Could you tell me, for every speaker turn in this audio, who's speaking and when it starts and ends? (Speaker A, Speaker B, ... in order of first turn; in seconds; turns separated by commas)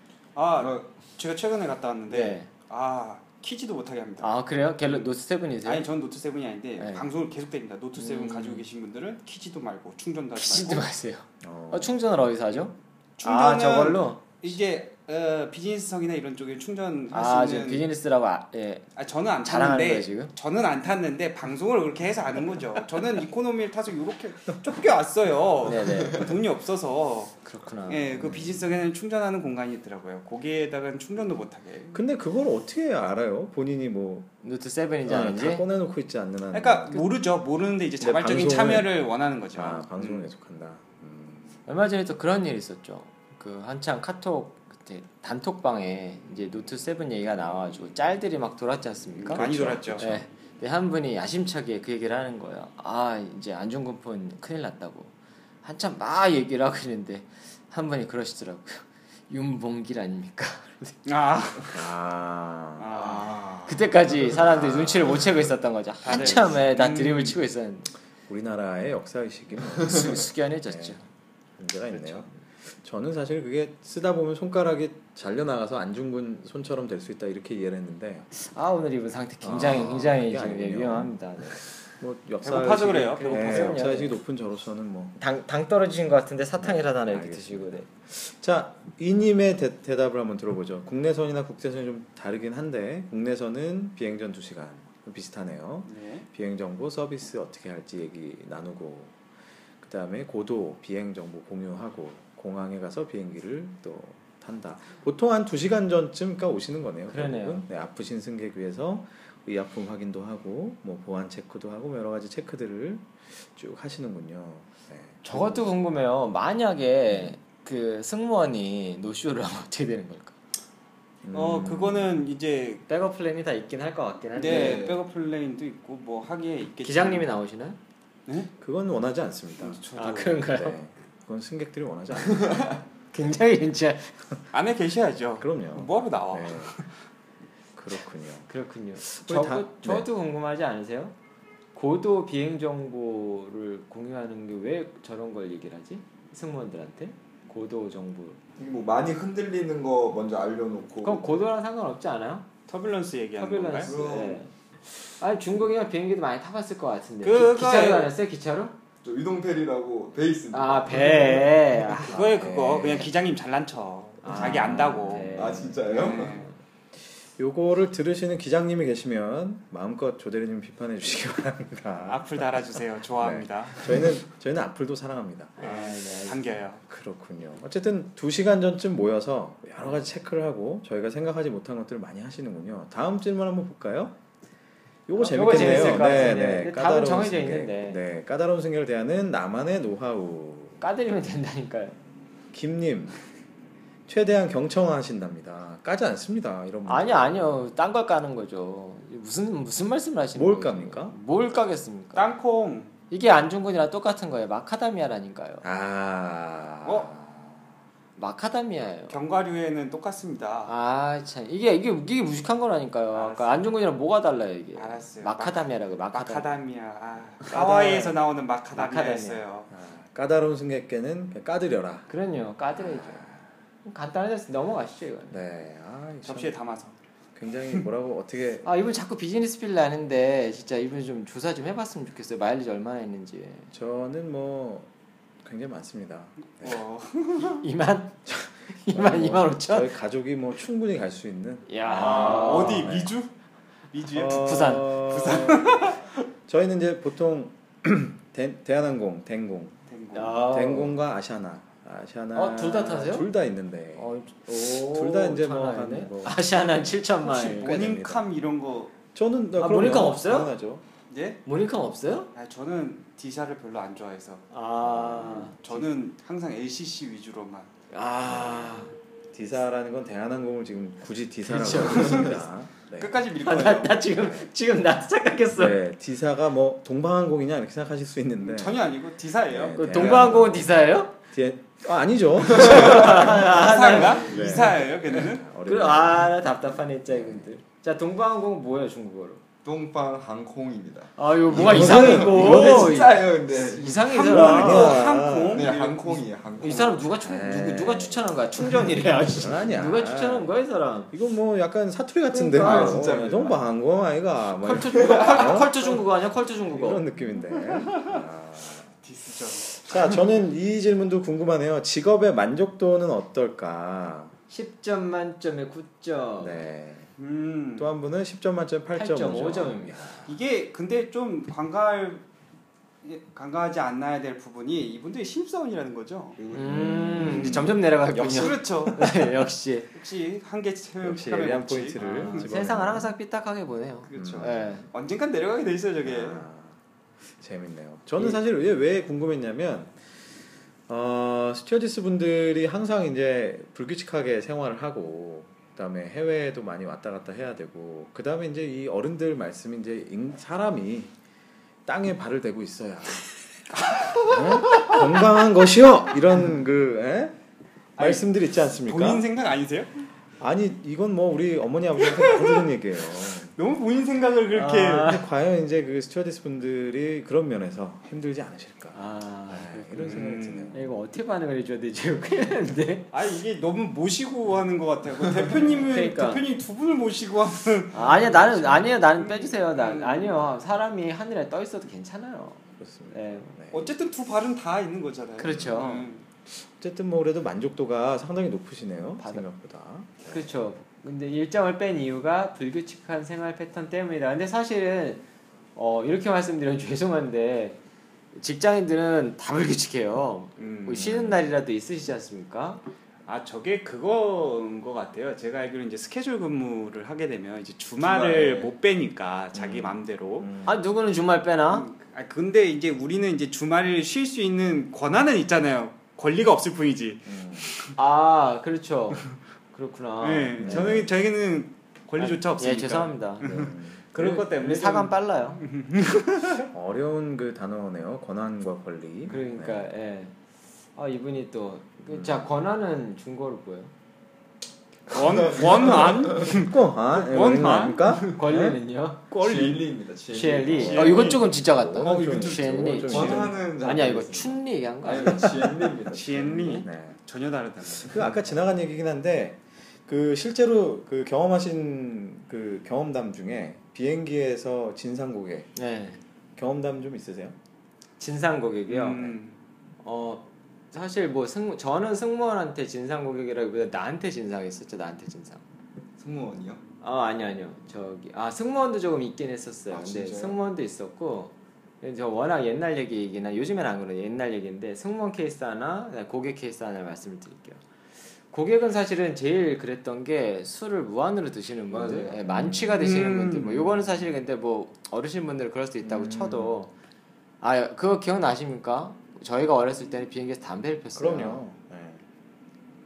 Speaker A: 0.3-4.3, Speaker B: 0.6-0.8, Speaker C: 2.1-2.5, Speaker C: 4.2-5.8, Speaker A: 5.6-10.9, Speaker C: 6.8-7.0, Speaker C: 8.0-8.7, Speaker C: 10.3-14.3, Speaker D: 11.4-12.0, Speaker A: 13.2-17.9, Speaker C: 17.1-18.9, Speaker A: 18.9-27.4, Speaker C: 19.4-20.3, Speaker C: 25.6-26.3, Speaker B: 25.9-26.2, Speaker C: 27.4-28.4, Speaker A: 27.9-32.0, Speaker D: 31.9-34.3, Speaker C: 34.4-35.6, Speaker D: 35.0-37.0, Speaker A: 36.5-40.3, Speaker D: 38.0-38.9, Speaker D: 39.5-41.5, Speaker C: 41.6-55.1, Speaker A: 49.3-50.0, Speaker D: 49.3-50.2, Speaker C: 55.6-61.0, Speaker A: 61.0-61.8, Speaker D: 61.7-63.0, Speaker A: 62.8-63.7, Speaker B: 63.0-63.8, Speaker C: 63.6-67.9, Speaker D: 64.2-65.5, Speaker A: 66.0-67.4, Speaker D: 66.1-66.4, Speaker D: 68.3-71.0, Speaker C: 69.8-71.0, Speaker D: 71.6-78.3, Speaker A: 71.9-72.2, Speaker C: 78.3-81.6, Speaker D: 79.4-85.1, Speaker A: 82.4-83.9, Speaker C: 83.2-84.2, Speaker C: 85.2-87.8, Speaker D: 86.6-99.1, Speaker A: 95.9-96.2, Speaker D: 99.8-115.7, Speaker C: 107.1-107.6, Speaker C: 115.2-120.3, Speaker D: 121.2-122.2, Speaker A: 121.3-122.8, Speaker C: 122.9-124.9, Speaker A: 124.3-127.3, Speaker B: 124.4-125.0, Speaker C: 126.8-127.8, Speaker D: 128.6-129.8, Speaker A: 129.6-130.5, Speaker C: 129.9-130.8, Speaker D: 130.5-132.8, Speaker C: 133.1-134.2, Speaker A: 134.5-136.8, Speaker D: 135.4-136.7, Speaker D: 137.8-138.5, Speaker C: 138.5-141.1, Speaker D: 139.0-140.1, Speaker C: 141.7-148.4, Speaker B: 148.6-151.3, Speaker C: 151.0-152.5, Speaker A: 152.7-153.9, Speaker C: 153.3-158.7, Speaker B: 153.8-154.4, Speaker A: 157.2-158.1, Speaker B: 159.0-161.5, Speaker C: 160.5-162.2, Speaker A: 162.0-165.3, Speaker D: 162.1-163.1, Speaker C: 164.2-166.5, Speaker D: 164.3-165.8, Speaker B: 165.3-166.4, Speaker A: 165.9-166.5, Speaker D: 167.4-172.5, Speaker A: 172.1-174.2, Speaker D: 173.2-175.5, Speaker C: 175.6-176.4, Speaker A: 175.6-176.8, Speaker D: 176.9-184.2, Speaker D: 185.1-190.8, Speaker C: 185.2-188.0, Speaker C: 190.8-191.9, Speaker D: 192.5-193.2, Speaker D: 194.1-197.3, Speaker C: 196.8-202.2, Speaker D: 200.3-201.2, Speaker A: 202.1-202.9, Speaker C: 203.1-205.6, Speaker D: 205.6-207.7, Speaker A: 206.8-207.1, Speaker C: 208.2-209.2, Speaker A: 209.1-210.7, Speaker C: 210.7-216.6, Speaker A: 213.1-213.6, Speaker A: 214.8-219.7, Speaker C: 217.4-218.1, Speaker D: 217.5-218.0, Speaker C: 218.7-219.4, Speaker D: 219.7-222.1, Speaker C: 222.1-223.2, Speaker D: 222.7-223.4, Speaker C: 223.8-225.4, Speaker D: 225.3-226.5, Speaker A: 226.2-226.9, Speaker D: 227.3-228.7, Speaker C: 228.6-233.7, Speaker D: 233.7-234.9, Speaker D: 235.4-236.8, Speaker A: 236.6-237.7, Speaker C: 237.4-239.9, Speaker D: 238.2-243.2, Speaker C: 241.7-242.9, Speaker A: 241.9-243.3, Speaker A: 243.9-246.0, Speaker D: 244.1-245.9, Speaker C: 244.2-245.0, Speaker D: 246.5-249.8, Speaker A: 249.9-250.4, Speaker C: 250.1-250.9, Speaker D: 250.4-258.2, Speaker C: 252.3-253.3, Speaker C: 254.0-257.8, Speaker A: 257.2-258.9, Speaker D: 259.1-260.8, Speaker C: 259.6-260.5, Speaker A: 261.1-261.4, Speaker C: 261.4-262.3, Speaker A: 262.3-264.4, Speaker C: 264.5-265.6, Speaker D: 264.8-265.7, Speaker A: 265.6-267.7, Speaker C: 267.9-268.9, Speaker D: 268.2-273.2, Speaker C: 271.5-272.3, Speaker A: 271.8-272.4, Speaker A: 272.9-274.0, Speaker C: 273.4-275.8, Speaker D: 274.1-274.5, Speaker D: 275.5-278.8, Speaker A: 278.4-280.2, Speaker D: 279.5-280.7, Speaker C: 279.8-281.1, Speaker D: 281.3-286.4, Speaker C: 282.5-284.3, Speaker A: 282.6-285.4, Speaker C: 285.6-289.4, Speaker D: 287.1-287.5, Speaker B: 289.6-294.2, Speaker C: 291.2-295.0, Speaker D: 291.5-293.1, Speaker D: 294.1-295.7, Speaker A: 294.1-296.2, Speaker B: 295.5-297.1, Speaker C: 296.6-301.1, Speaker D: 297.2-300.5, Speaker D: 301.1-305.7, Speaker C: 302.3-303.3, Speaker B: 302.5-303.6, Speaker C: 304.6-307.0, Speaker B: 305.0-305.4, Speaker D: 306.7-308.9, Speaker A: 309.0-310.2, Speaker D: 309.7-314.3, Speaker C: 314.5-316.6, Speaker D: 316.4-317.1, Speaker A: 317.2-317.9, Speaker D: 317.8-320.3, Speaker C: 318.9-320.1, Speaker A: 320.2-322.2, Speaker A: 323.0-326.4, Speaker B: 326.4-326.7, Speaker C: 326.5-329.9, Speaker D: 326.6-327.7, Speaker A: 327.2-329.3, Speaker A: 329.9-332.5, Speaker D: 331.0-333.1, Speaker C: 332.0-334.9, Speaker A: 334.1-336.4, Speaker D: 334.1-334.8, Speaker D: 336.0-336.8, Speaker D: 337.4-340.0, Speaker D: 340.9-351.1, Speaker D: 351.9-353.3, Speaker A: 353.7-355.1, Speaker D: 354.2-357.4, Speaker A: 358.0-358.3, Speaker D: 358.0-359.2, Speaker A: 358.8-360.1, Speaker D: 360.4-363.5, Speaker A: 362.0-362.6, Speaker A: 363.5-365.2, Speaker C: 364.5-365.2, Speaker D: 365.0-370.9, Speaker C: 368.9-373.1, Speaker A: 370.0-370.8, Speaker A: 373.1-378.1, Speaker D: 375.6-375.9, Speaker C: 375.9-376.4, Speaker C: 377.9-383.5, Speaker D: 378.0-379.0, Speaker A: 379.2-380.4, Speaker D: 382.8-383.9, Speaker A: 383.7-386.2, Speaker C: 385.4-386.1, Speaker D: 385.6-385.9, Speaker D: 386.5-390.5, Speaker C: 389.2-389.4, Speaker C: 390.3-395.2, Speaker C: 395.8-397.8, Speaker C: 398.3-402.8, Speaker A: 400.6-401.2, Speaker D: 401.0-401.3, Speaker A: 403.2-410.5, Speaker D: 408.0-408.7, Speaker D: 409.5-410.8, Speaker C: 410.6-411.9, Speaker A: 411.7-417.9, Speaker D: 417.3-417.7, Speaker C: 417.9-421.0, Speaker A: 420.2-426.7, Speaker D: 420.6-421.1, Speaker C: 422.2-425.6, Speaker D: 423.4-424.4, Speaker D: 426.7-429.9, Speaker C: 429.3-430.3, Speaker C: 430.9-433.9, Speaker D: 432.1-432.5, Speaker A: 435.1-438.3, Speaker B: 435.1-436.4, Speaker D: 436.4-438.8, Speaker C: 438.2-439.2, Speaker A: 439.3-439.9, Speaker B: 439.3-441.2, Speaker C: 440.3-445.8, Speaker D: 440.7-443.6, Speaker A: 440.7-441.5, Speaker B: 442.0-446.8, Speaker A: 446.1-448.3, Speaker D: 446.8-447.2, Speaker D: 447.9-455.7, Speaker C: 455.8-456.2, Speaker D: 456.6-457.6, Speaker C: 458.2-459.4, Speaker A: 458.9-459.6, Speaker C: 460.0-465.6, Speaker B: 466.2-466.8, Speaker C: 467.0-477.8, Speaker B: 469.9-470.6, Speaker C: 478.5-486.9, Speaker D: 482.0-483.1, Speaker A: 483.0-483.9, Speaker D: 483.9-484.3, Speaker D: 486.0-486.8, Speaker C: 487.6-491.6, Speaker D: 491.1-492.2